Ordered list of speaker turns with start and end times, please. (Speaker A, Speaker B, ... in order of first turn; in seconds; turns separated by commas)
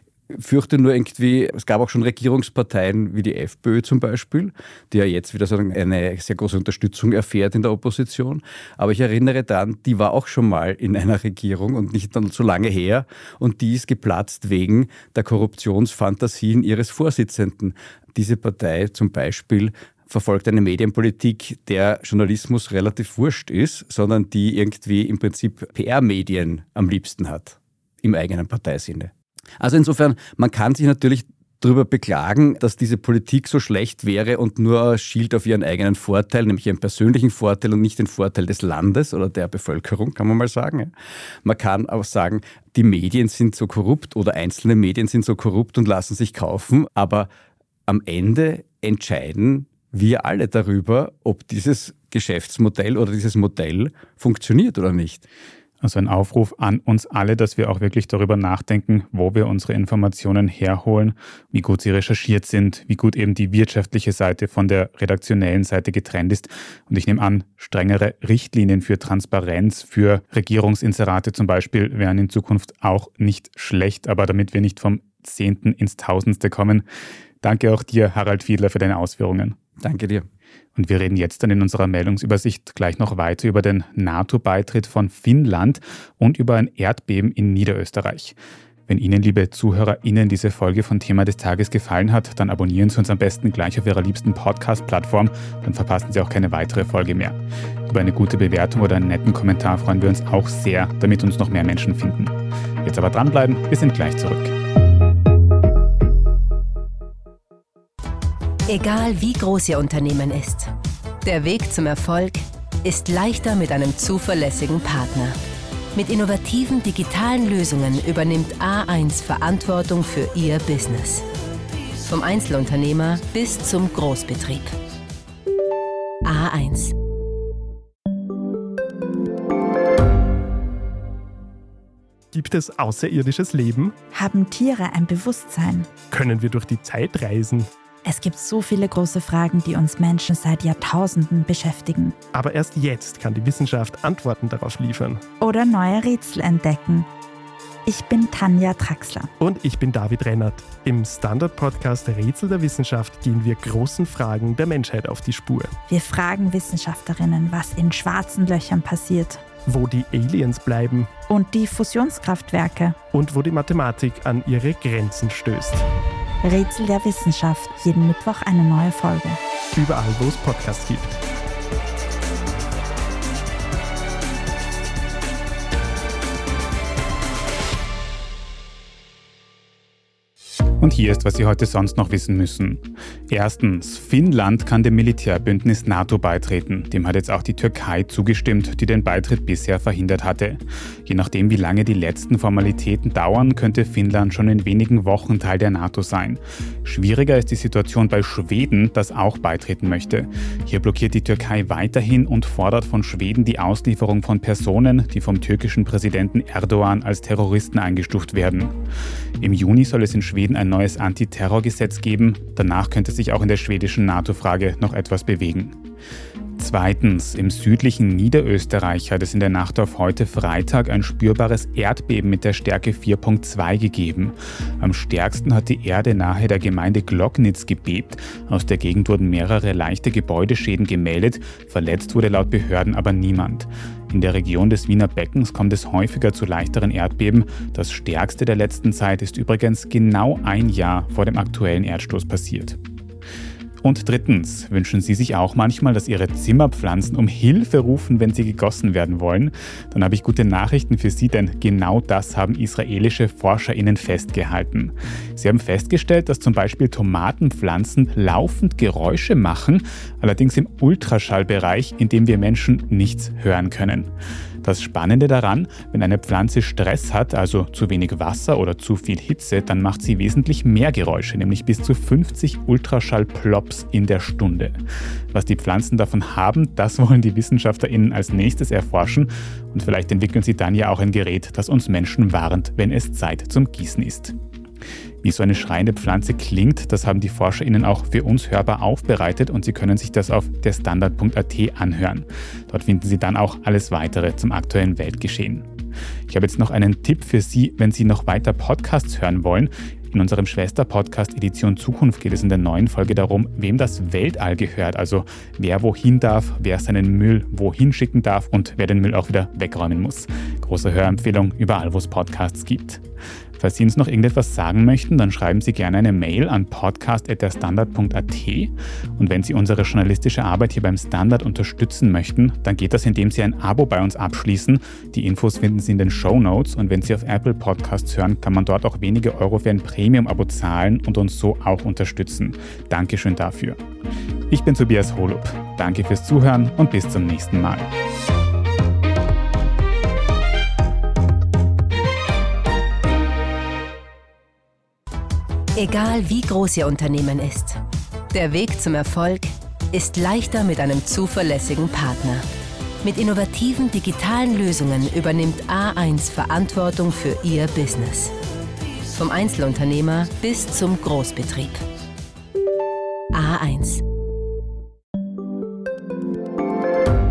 Speaker A: 0.3-40.9, Speaker A: 41.4-47.3, Speaker A: 47.9-55.2, Speaker B: 55.8-76.8, Speaker B: 77.4-79.5, Speaker A: 79.8-80.2, Speaker B: 80.8-88.3, Speaker B: 88.9-104.5, Speaker C: 108.7-110.7, Speaker C: 111.2-115.4, Speaker C: 115.9-121.2, Speaker C: 122.0-124.7, Speaker C: 126.2-126.9, Speaker D: 132.3-133.9, Speaker E: 134.1-135.9, Speaker D: 136.1-137.7, Speaker E: 138.0-142.2, Speaker D: 142.3-145.2, Speaker E: 145.4-147.1, Speaker E: 147.8-149.3, Speaker D: 149.4-155.7, Speaker E: 155.9-159.4, Speaker D: 159.7-161.1, Speaker E: 161.3-163.0, Speaker D: 163.1-165.8, Speaker E: 166.4-169.4, Speaker D: 169.7-171.2, Speaker B: 180.8-208.7, Speaker B: 209.4-215.8, Speaker B: 216.6-242.8, Speaker B: 243.8-264.1, Speaker B: 264.6-274.8, Speaker B: 275.3-284.3, Speaker B: 285.2-295.7, Speaker B: 296.3-313.0, Speaker B: 313.6-333.8, Speaker B: 334.5-337.9, Speaker C: 345.8-352.4, Speaker C: 353.0-358.3, Speaker C: 359.1-361.8, Speaker C: 363.3-364.0